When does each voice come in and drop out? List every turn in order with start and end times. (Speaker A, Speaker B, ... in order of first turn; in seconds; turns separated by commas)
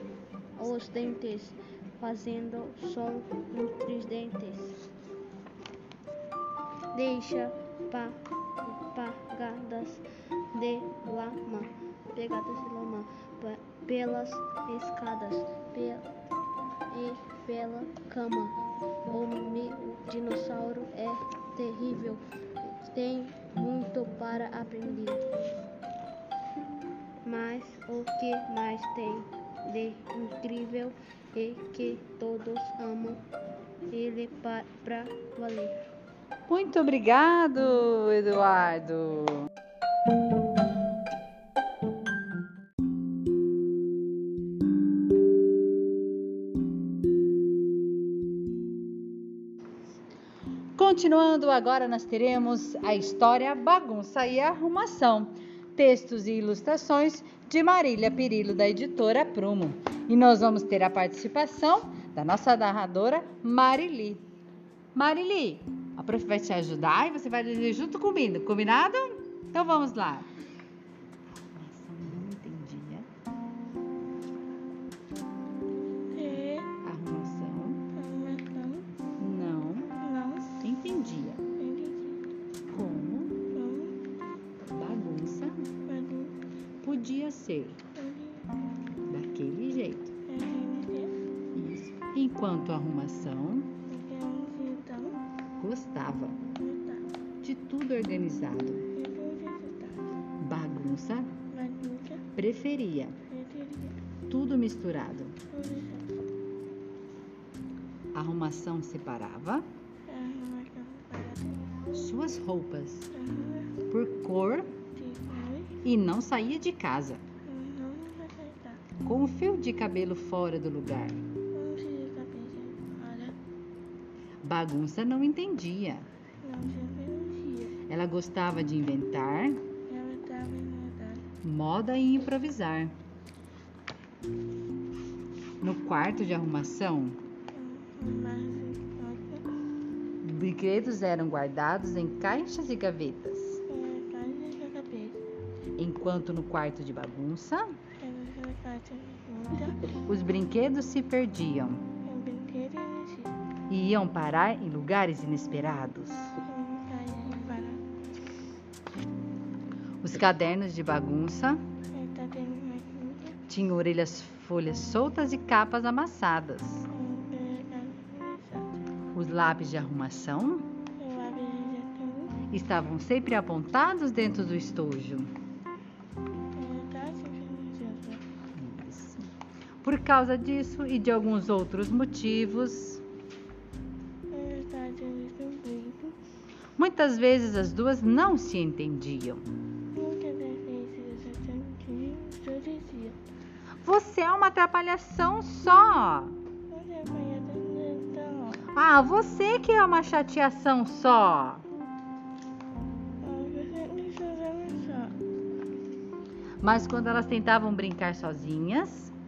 Speaker A: 0.6-4.8, Speaker A: 6.9-16.1, Speaker A: 16.9-18.5, Speaker A: 19.1-25.2, Speaker A: 27.2-33.2, Speaker A: 33.9-35.7, Speaker B: 36.5-39.5, Speaker B: 50.8-64.2, Speaker B: 64.9-70.3, Speaker B: 71.3-73.1, Speaker C: 76.1-76.7, Speaker B: 76.8-77.8, Speaker C: 78.0-78.8, Speaker B: 79.2-79.9, Speaker C: 80.0-80.5, Speaker B: 80.6-81.4, Speaker C: 81.6-82.2, Speaker B: 82.7-83.4, Speaker C: 83.5-83.9, Speaker B: 84.7-85.7, Speaker C: 85.9-86.3, Speaker B: 86.8-87.8, Speaker C: 88.0-88.5, Speaker B: 89.0-90.1, Speaker C: 90.3-91.1, Speaker B: 91.5-93.7, Speaker C: 93.9-95.2, Speaker B: 95.6-96.4, Speaker C: 96.6-97.0, Speaker B: 97.4-98.8, Speaker C: 99.0-100.1, Speaker B: 100.4-101.3, Speaker C: 101.5-102.2, Speaker B: 102.3-103.2, Speaker C: 103.3-104.0, Speaker B: 104.3-105.3, Speaker C: 105.5-106.1, Speaker B: 108.1-109.7, Speaker C: 110.1-111.5, Speaker B: 111.9-113.1, Speaker C: 113.2-113.7, Speaker B: 113.8-114.7, Speaker C: 115.0-115.7, Speaker B: 115.8-117.2, Speaker C: 117.5-118.8, Speaker B: 119.0-121.2, Speaker C: 121.5-123.3, Speaker B: 124.4-126.0, Speaker C: 126.4-127.7, Speaker B: 127.9-129.6, Speaker C: 129.9-131.2, Speaker B: 131.4-132.9, Speaker B: 135.6-137.2, Speaker C: 137.5-139.4, Speaker B: 140.2-143.6, Speaker C: 143.7-145.2, Speaker B: 145.8-147.7, Speaker C: 148.0-149.9, Speaker B: 149.9-151.8, Speaker C: 152.0-153.3, Speaker B: 153.7-156.3, Speaker C: 156.5-157.8, Speaker B: 160.0-161.6, Speaker C: 161.9-163.3, Speaker B: 163.5-166.8, Speaker C: 166.9-168.8, Speaker B: 169.1-170.7, Speaker C: 171.0-172.3, Speaker B: 172.5-175.3, Speaker C: 176.6-178.2, Speaker B: 178.5-179.3, Speaker B: 179.8-183.0, Speaker C: 184.3-186.1, Speaker B: 186.8-189.4, Speaker C: 189.9-193.2, Speaker B: 193.8-196.3, Speaker C: 196.7-198.6, Speaker B: 198.7-201.6, Speaker C: 203.2-205.1, Speaker B: 206.6-209.1